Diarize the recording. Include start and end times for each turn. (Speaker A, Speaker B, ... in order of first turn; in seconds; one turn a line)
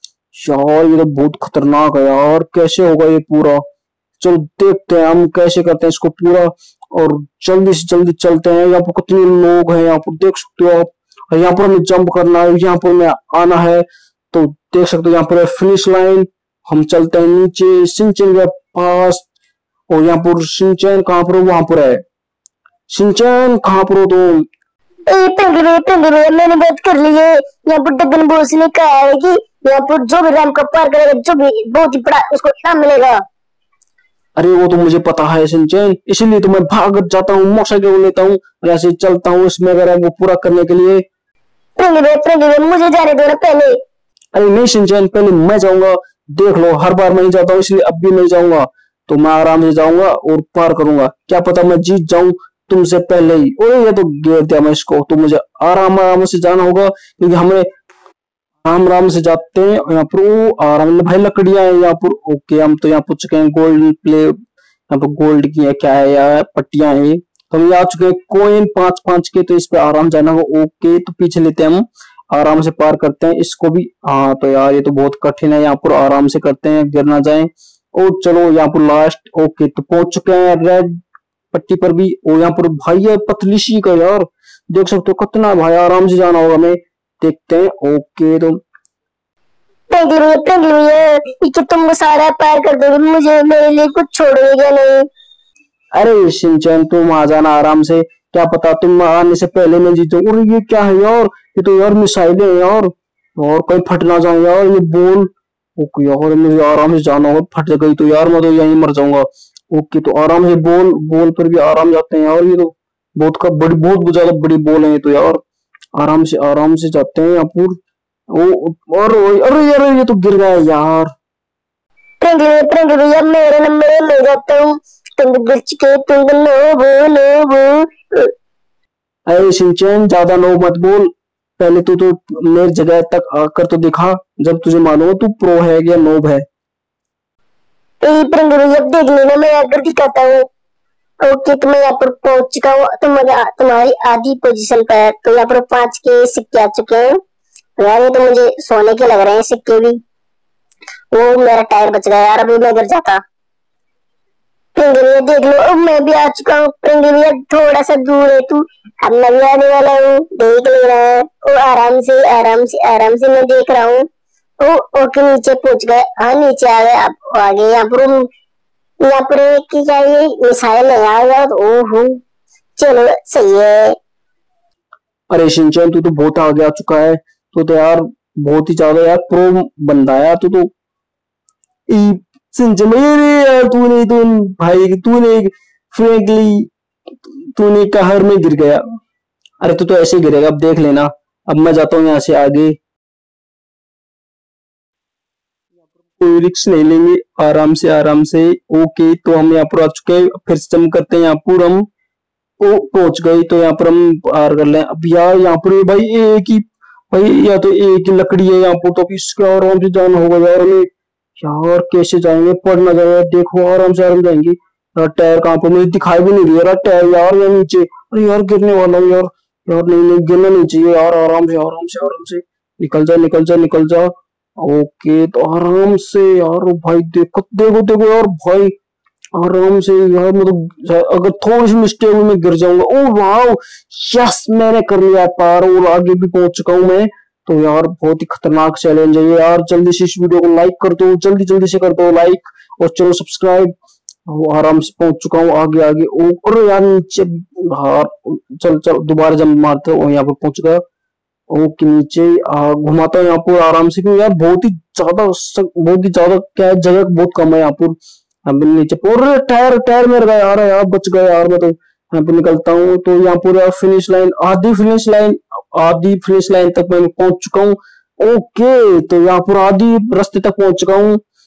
Speaker A: 0.3-3.6
Speaker A: 4.2-19.3
Speaker A: 19.9-22.0
Speaker A: 22.9-24.5
Speaker B: 25.1-33.2
Speaker A: 34.4-41.0
Speaker B: 41.8-43.8
Speaker A: 44.3-57.7
Speaker A: 58.6-64.4
Speaker A: 64.9-81.0
Speaker A: 81.5-88.6
Speaker B: 89.9-95.1
Speaker A: 96.0-115.4
Speaker A: 116.0-117.8
Speaker A: 118.3-121.1
Speaker B: 122.2-128.3
Speaker A: 129.3-136.4
Speaker B: 138.0-140.5
Speaker B: 141.2-147.2
Speaker B: 147.8-150.0
Speaker B: 151.1-153.2
Speaker B: 154.8-164.1
Speaker B: 164.6-168.2
Speaker B: 169.0-172.2
Speaker B: 172.8-174.0
Speaker A: 175.3-180.7
Speaker A: 181.9-186.7
Speaker A: 187.6-188.8
Speaker A: 189.6-192.8
Speaker A: 196.1-201.9
Speaker A: 202.6-228.7
Speaker A: 229.4-243.7
Speaker A: 244.3-250.8
Speaker A: 251.5-271.2